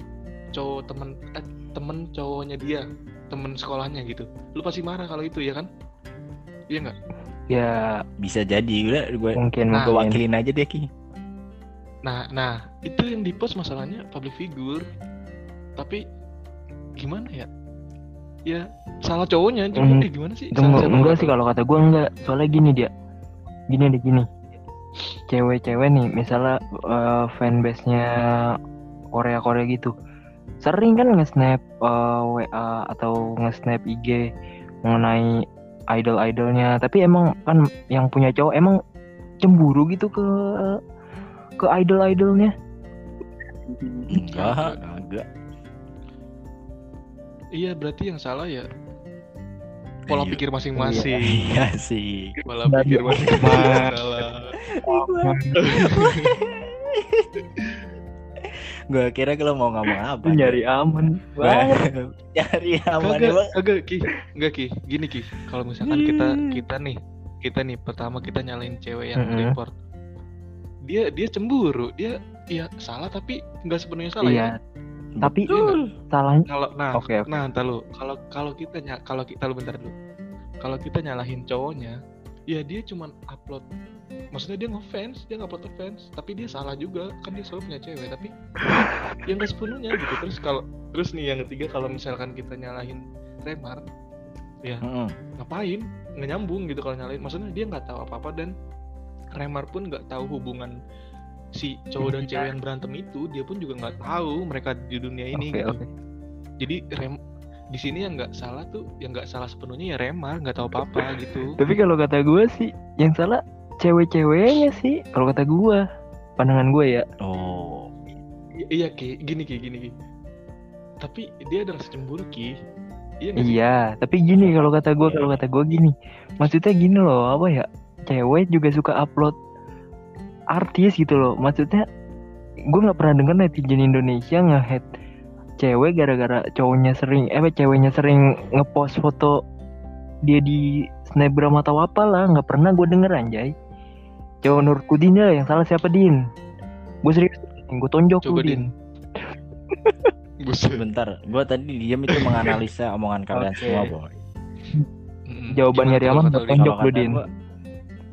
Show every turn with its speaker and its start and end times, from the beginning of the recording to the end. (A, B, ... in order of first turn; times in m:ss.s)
0:00.5-0:05.7 A
0:07.5-0:08.0 B
0:08.2-0:10.8 C
0:09.4-0:10.2 B
0:09.7-0:10.0 A
0:12.0-0:14.8 A
0:17.0-0:17.5 A
0:18.5-0:21.3 A
0:19.8-0:22.9 B
0:23.7-0:24.2 B
0:25.3-0:28.5 B
0:29.1-0:29.9 B
0:30.6-0:34.2 B
0:34.8-0:35.3 B
0:35.9-0:38.8 B
0:39.4-0:40.8 B
0:41.6-0:42.5 B
0:43.7-0:44.1 B
0:44.1-0:45.2 C
0:44.1-0:44.8 A
0:47.6-0:48.6 A
0:50.1-0:50.4 C
0:50.1-0:51.6 A
0:50.8-0:51.1 B
0:51.2-0:52.3 C
0:52.4-0:54.5 A
0:52.7-0:53.9 B
0:53.2-0:53.7 C
0:54.6-0:57.3 C
0:54.9-0:55.6 B
0:55.6-0:56.3 A
0:57.6-0:57.8 A
0:58.4-1:00.6 C
1:00.2-1:01.8 B
1:01.4-1:03.5 C
1:03.0-1:09.7 A
1:05.8-1:06.6 C
1:09.2-1:09.6 B
1:10.9-1:14.5 A
1:14.2-1:14.6 B
1:15.2-1:15.9 C
1:15.2-1:15.5 B
1:15.5-1:15.8 A
1:16.1-1:17.3 B
1:16.5-1:19.9 A
1:20.6-1:22.0 A
1:22.5-1:23.6 A
1:24.3-1:28.3 A
1:28.6-1:29.2 B
1:29.2-1:33.8 A
1:34.8-1:35.1 C
1:35.4-1:38.5 A
1:39.3-1:40.7 A
1:41.6-1:45.8 A
1:42.0-1:42.5 B
1:45.3-1:45.8 B
1:46.6-1:47.2 A
1:47.7-1:51.5 A
1:51.6-1:55.8 B
1:56.4-1:57.0 B
1:57.2-1:57.9 C
1:58.7-1:59.9 A
2:01.0-2:02.5 A
2:03.2-2:03.6 A
2:03.4-2:09.3 B
2:05.0-2:05.4 C
2:10.5-2:11.8 B
2:12.7-2:14.8 B
2:15.6-2:19.4 B
2:20.2-2:23.5 B
2:24.4-2:26.2 B
2:27.0-2:28.6 B
2:28.2-2:28.6 A
2:30.4-2:30.8 A
2:30.8-2:34.1 C
2:32.2-2:32.6 A
2:33.3-2:33.9 B
2:35.3-2:36.6 A
2:35.5-2:37.2 B
2:36.5-2:37.3 C